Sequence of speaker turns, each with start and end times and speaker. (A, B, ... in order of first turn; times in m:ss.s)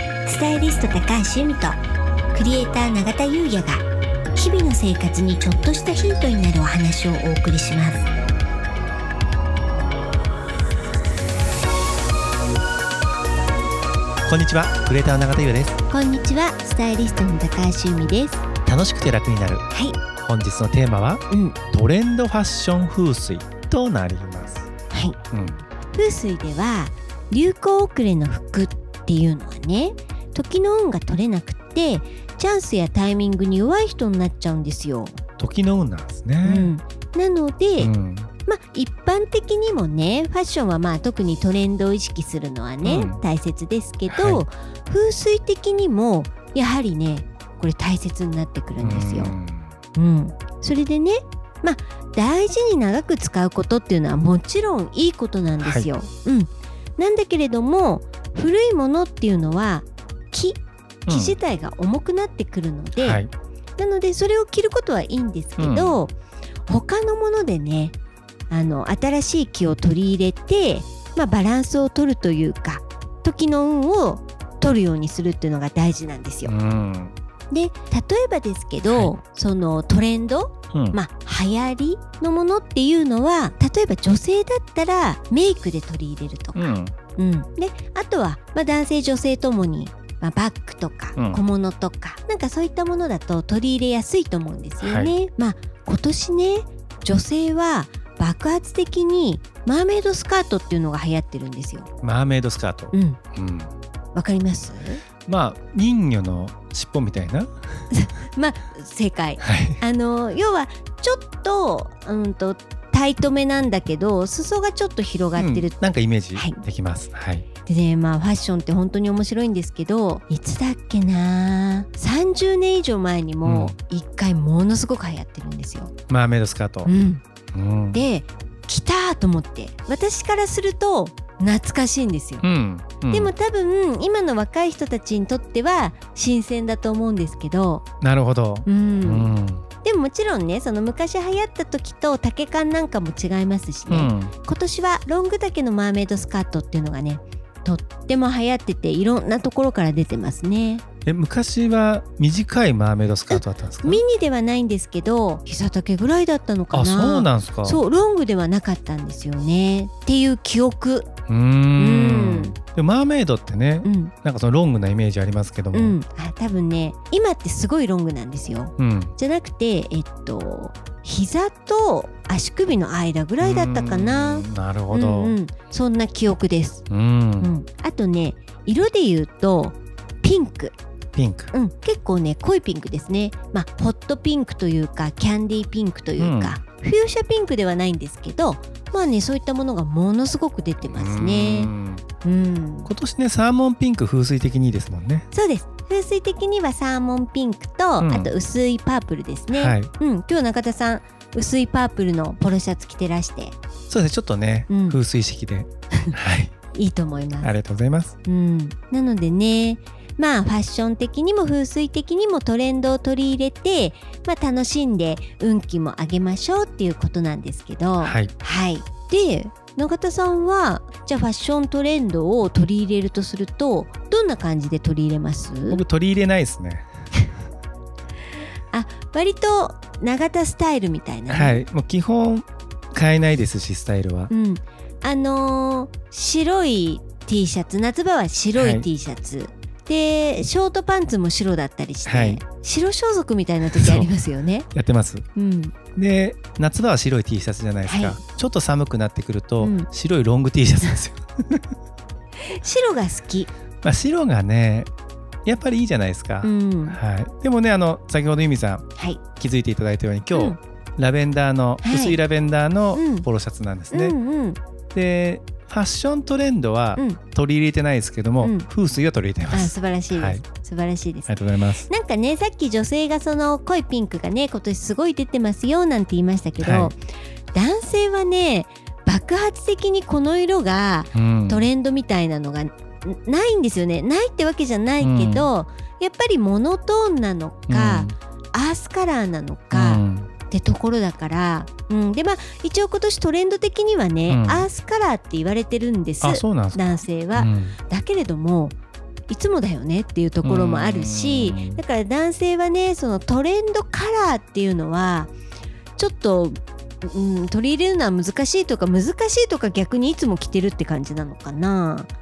0:00.3-0:01.8 A
0:02.3-0:08.1 A
0:14.2-0:15.8 B
0:15.9-0:18.4 A
0:18.6-0:19.6 B
0:19.7-0:20.0 A
0:20.2-0:24.7 B
0:21.3-0:21.6 A
0:24.9-0:25.2 A
0:25.3-0:25.6 B
0:25.9-0:35.2 A
0:35.4-0:36.7 B
0:36.4-0:37.9 A
0:37.8-0:38.3 B
0:38.5-0:49.4 A
0:42.8-0:43.2 B
0:44.1-0:44.4 B
0:48.8-0:49.7 B
0:50.0-1:03.2 A
0:55.6-0:55.9 B
1:01.1-1:01.4 B
1:03.0-1:03.3 B
1:03.8-1:06.2 A
1:05.6-1:06.0 B
1:06.7-1:08.0 A
1:08.5-1:16.5 A
1:16.4-1:17.1 B
1:17.5-1:41.9 A
1:20.7-1:21.0 B
1:26.6-1:27.0 B
1:31.2-1:31.4 B
1:34.8-1:35.1 B
1:42.0-1:43.7 B
1:42.9-1:43.2 A
1:44.1-1:45.0 A
1:45.3-1:47.5 B
1:47.9-1:55.8 A
1:49.4-1:49.8 B
1:55.4-1:57.5 B
1:56.4-1:56.6 A
1:57.7-2:05.9 A
2:03.4-2:03.8 B
2:06.1-2:06.9 B
2:06.9-2:07.2 A
2:07.5-2:08.0 B
2:07.9-2:12.4 A
2:12.4-2:13.3 B
2:13.1-2:17.8 A
2:18.0-2:19.6 B
2:18.7-2:19.3 A
2:19.8-2:30.8 A
2:23.9-2:24.3 B
2:31.1-2:34.0 B
2:33.3-2:41.1 A
2:36.7-2:37.8 B
2:41.3-2:46.0 B
2:41.8-2:42.6 A
2:43.8-2:44.1 A
2:45.7-2:56.8 A
2:48.8-2:49.2 B
2:53.4-2:55.4 B
2:56.9-2:57.5 B
2:57.4-3:00.7 A
3:01.2-3:01.5 B
3:01.5-3:11.7 A
3:06.2-3:06.6 B
3:10.9-3:12.0 B
3:12.2-3:12.9 A
3:12.9-3:15.3 B
3:15.3-3:23.6 A
3:18.0-3:18.3 B
3:19.5-3:19.9 B
3:23.9-3:26.5 B
3:24.7-3:25.0 A
3:26.8-3:27.6 A
3:27.4-3:28.2 B
3:28.3-3:45.8 A
3:38.0-3:38.3 B
3:45.7-3:46.9 B
3:48.7-3:51.6 A
3:51.3-3:54.3 B
3:54.3-4:04.7 A
3:58.6-3:58.9 B
4:02.1-4:02.4 B
4:03.7-4:04.1 B
4:04.7-4:05.3 B
4:05.4-4:05.8 A
4:06.0-4:11.7 B
4:07.8-4:08.2 A
4:09.6-4:09.9 A
4:12.4-4:13.5 A
4:13.8-4:14.9 B
4:15.4-4:18.9 B
4:16.4-4:17.0 A
4:19.4-4:24.2 B
4:21.8-4:22.2 A
4:22.9-4:23.3 A
4:23.9-4:24.6 A
4:24.9-4:30.4 B
4:29.5-4:31.4 A
4:31.3-4:31.9 B
4:31.9-4:37.0 A
4:36.6-4:36.9 B
4:37.5-4:58.8 A
4:41.1-4:41.7 B
4:45.0-4:45.5 B
4:47.7-4:48.1 B
4:49.7-4:50.3 B
4:54.3-4:54.7 B
4:56.2-4:56.8 B
4:57.4-4:57.8 B
4:59.3-5:05.3 A
5:00.4-5:01.8 B
5:06.0-5:12.1 A